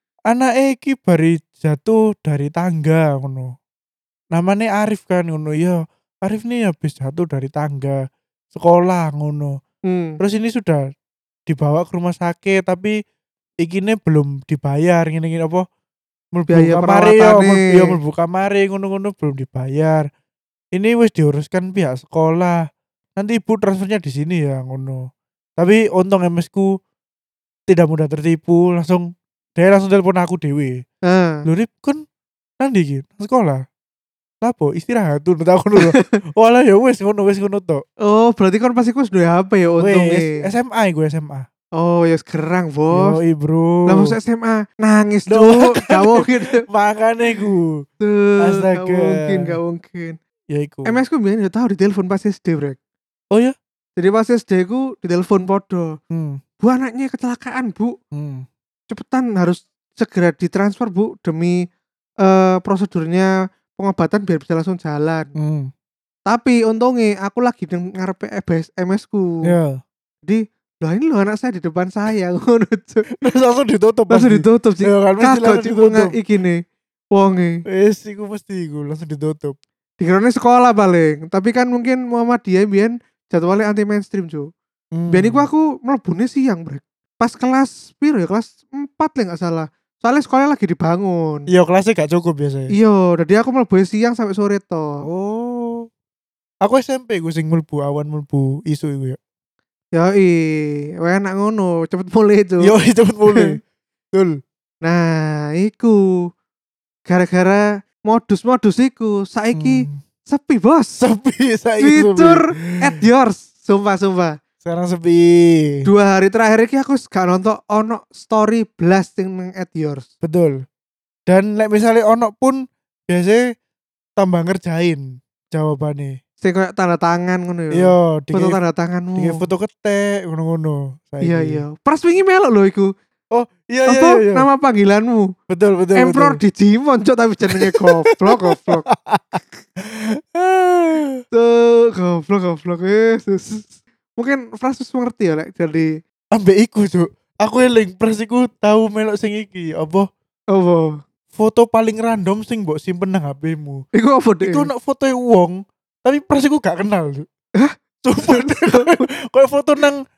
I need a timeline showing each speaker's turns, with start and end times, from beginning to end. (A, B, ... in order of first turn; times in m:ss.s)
0:00.3-0:03.5 A
0:04.3-0:08.0 A
0:08.5-0:09.5 A
0:09.9-0:10.2 B
0:10.2-0:10.8 A
0:11.5-0:12.9 A
0:13.6-0:15.6 A
0:16.3-0:20.0 A
0:16.5-0:18.0 B
0:20.7-0:22.6 A
0:23.2-0:25.0 A
0:25.6-0:26.7 A
0:27.7-0:30.8 A
0:31.1-0:31.4 B
0:31.4-0:32.0 A
0:32.6-0:33.6 A
0:34.4-0:37.8 A
0:35.8-0:36.2 B
0:38.0-0:40.4 B
0:39.8-0:41.5 A
0:41.8-0:43.2 B
0:42.9-0:44.2 A
0:43.9-0:46.6 B
0:45.3-0:47.8 A
0:48.0-0:50.2 B
0:48.4-0:49.5 A
0:50.5-0:51.0 A
0:50.9-0:52.8 B
0:54.0-0:55.9 B
0:56.1-0:56.4 A
0:56.6-0:57.9 B
0:58.1-0:58.4 A
0:58.9-1:01.6 B
1:02.2-1:05.3 B
1:05.4-1:05.7 A
1:06.3-1:09.5 B
1:09.4-1:09.8 A
1:10.2-1:13.1 B
1:13.2-1:16.2 A
1:14.1-1:16.6 B
1:17.1-1:17.6 B
1:17.7-1:19.6 A
1:20.0-1:24.5 B
1:24.9-1:25.5 A
1:25.1-1:31.5 B
1:31.5-1:32.7 A
1:32.7-1:35.0 B
1:35.0-1:35.9 A
1:36.6-1:39.2 A
1:39.9-1:42.7 B
1:42.6-1:43.6 A
1:43.3-1:43.6 B
1:44.1-1:44.4 A
1:44.8-1:46.0 B
1:47.1-1:51.0 B
1:49.6-1:50.0 A
1:51.0-1:52.8 A
1:51.8-1:54.4 B
1:54.6-1:55.9 A
1:55.8-2:00.1 B
2:00.2-2:00.6 A
2:01.3-2:03.4 A
2:04.2-2:06.2 A
2:06.4-2:09.4 B
2:07.7-2:08.6 A
2:09.2-2:11.6 A
2:11.2-2:12.9 B
2:13.3-2:14.4 A
2:13.9-2:15.3 B
2:15.5-2:16.4 A
2:16.0-2:18.9 B
2:17.5-2:21.2 A
2:21.3-2:26.0 B
2:26.3-2:30.1 A
2:30.5-2:31.0 B
2:31.3-2:33.8 A
2:34.0-2:34.7 B
2:34.4-2:37.2 A
2:37.6-2:39.1 B
2:38.0-2:40.0 A